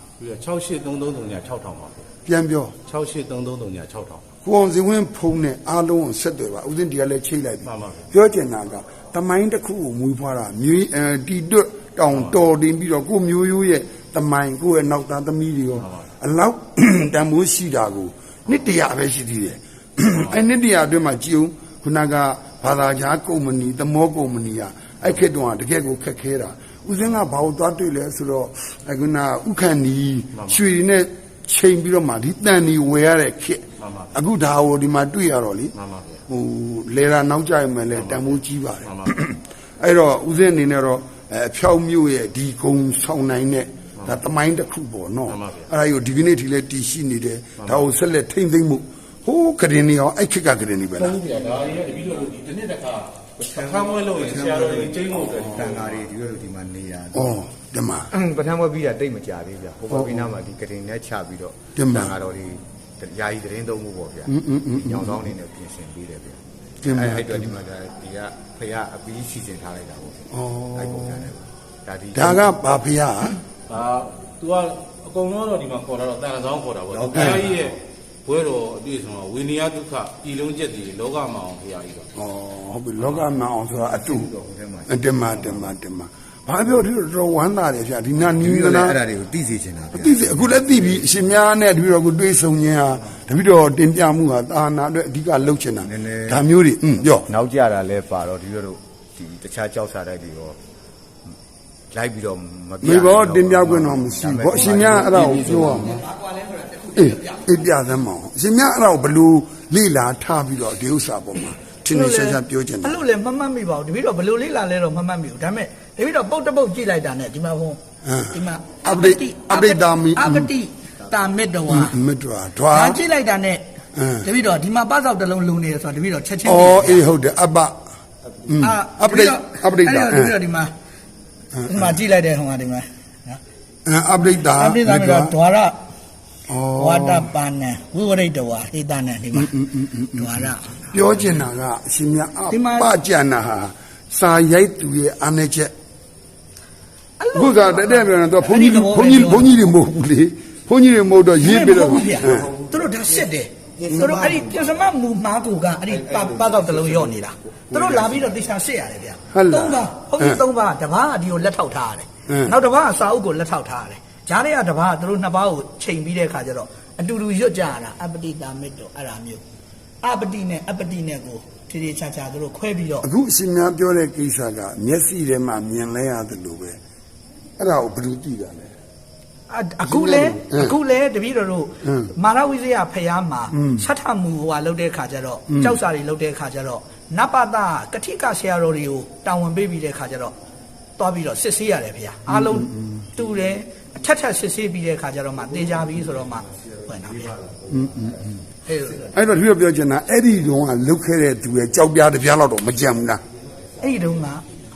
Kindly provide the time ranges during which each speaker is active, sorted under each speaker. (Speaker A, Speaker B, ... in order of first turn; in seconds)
Speaker A: 0.2-2.1, 2.9-4.2, 7.6-8.1, 12.1-12.4, 15.8-16.1, 20.1-20.4, 30.3-30.6, 33.8-34.1, 35.8-36.2, 37.9-39.1, 45.3-45.7, 47.6-47.9, 51.0-56.1, 73.7-82.1
Speaker B: 2.3-2.7, 4.4-35.7, 36.3-51.2, 57.1-58.1, 59.9-60.3, 61.8-62.2, 64.3-65.3, 66.8-67.6, 70.3-71.3, 72.1-73.4, 77.2-77.4, 82.2-84.3, 84.9-89.0, 89.9-97.3, 102.8-106.0, 107.0-113.0, 118.0-120.5, 121.7-123.0, 124.0-124.3, 126.5-127.8, 128.5-130.4, 131.5-132.0, 133.9-135.3, 136.5-137.3, 139.3-145.7, 147.3-152.5, 153.9-154.3, 159.3-160.4, 162.3-162.6, 173.0-176.8, 177.6-178.7, 179.8-180.8, 181.8-182.1, 183.5-183.9, 185.5-185.8, 192.3-193.1, 197.7-198.3, 199.1-203.2
Speaker C: 53.4-57.4, 58.1-72.8, 76.9-77.8, 83.0-85.7, 88.3-91.2, 95.8-96.4, 97.1-100.6, 101.9-106.0, 152.2-154.9, 155.9-158.4, 197.2-197.7
Speaker D: 105.2-107.6, 111.9-117.8, 118.3-122.0, 122.7-123.6, 124.2-127.1, 128.6-130.7, 131.7-133.4, 134.5-135.8, 136.8-139.5, 140.1-140.9, 142.5-142.9, 147.2-149.7, 151.4-169.4, 170.0-173.1, 179.5-190.3, 191.0-197.4, 198.7-199.1, 203.8-204.4